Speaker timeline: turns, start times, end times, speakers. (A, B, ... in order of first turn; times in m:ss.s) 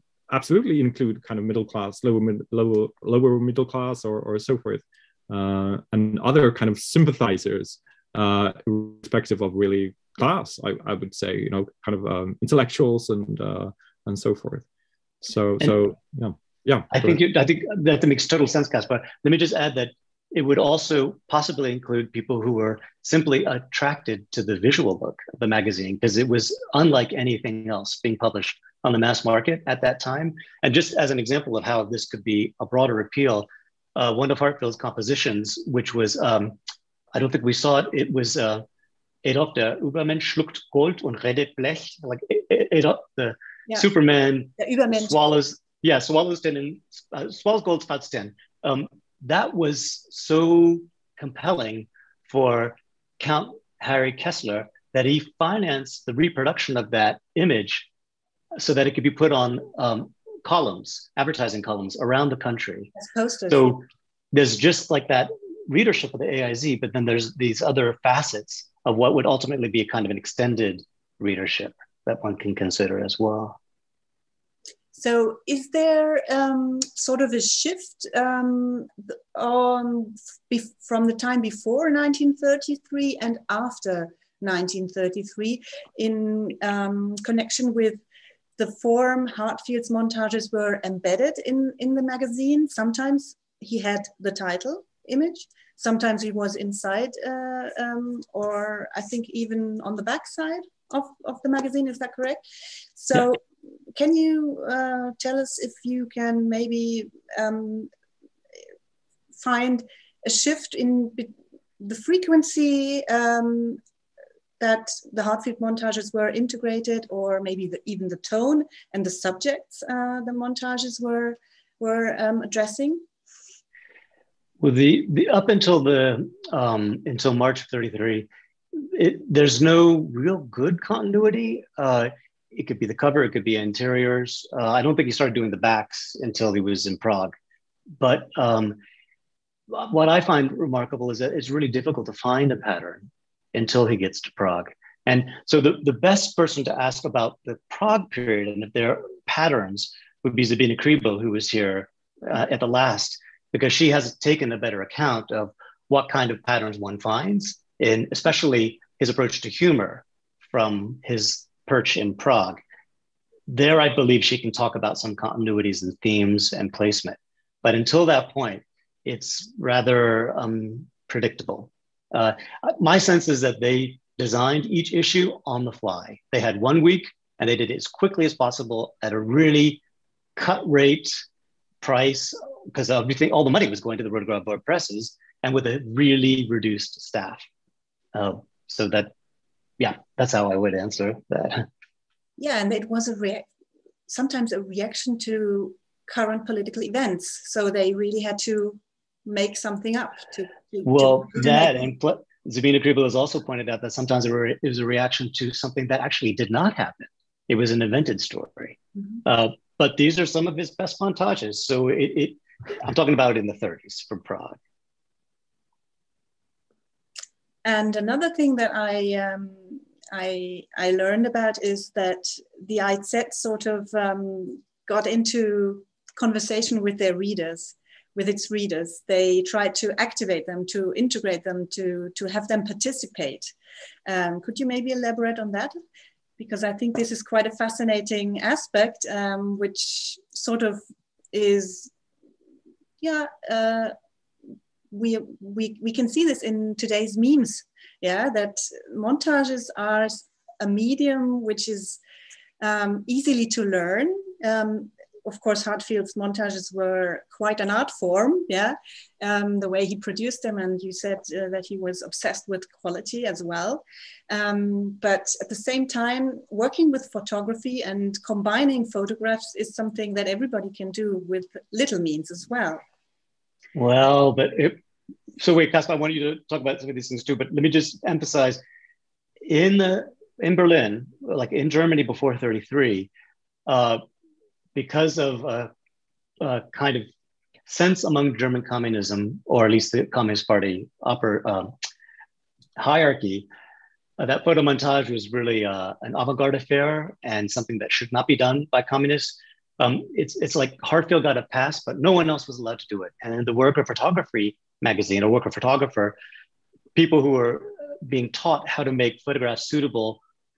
0:00.3-0:14.6 A
0:15.2-0:17.2 A
0:16.9-0:36.6 B
0:37.1-0:38.6 B
0:39.2-0:57.8 B
0:44.6-0:45.2 C
0:58.6-1:02.9 B
1:02.9-1:03.8 C
1:03.5-1:13.6 B
1:14.9-1:28.0 C
1:28.6-1:42.4 C
1:43.0-1:43.4 C
1:44.0-1:47.9 C
1:49.4-1:53.8 C
1:54.6-2:03.0 C
2:04.6-2:08.3 B
2:08.8-2:17.3 B
2:18.0-2:18.8 B
2:19.7-2:42.6 B
2:43.5-2:59.8 B
3:00.4-3:01.2 B
3:01.8-3:07.4 B
3:08.1-3:09.1 B
3:09.8-3:11.7 B
3:12.4-3:13.4 C
3:14.1-3:21.7 C
3:20.8-3:34.6 B
3:37.6-3:53.5 C
3:54.0-3:55.8 C
3:56.4-4:00.8 C
4:01.3-4:01.9 C
4:03.0-4:03.9 C
4:04.9-4:12.0 C
4:12.6-4:32.8 C
4:33.7-4:34.8 B
4:35.4-4:38.6 B
4:39.4-4:43.1 B
4:43.7-4:44.0 B
4:44.7-4:45.7 B
4:46.4-4:47.1 B
4:47.7-4:51.7 B
4:52.8-4:53.5 B
4:54.2-5:06.2 B
5:06.9-5:10.2 B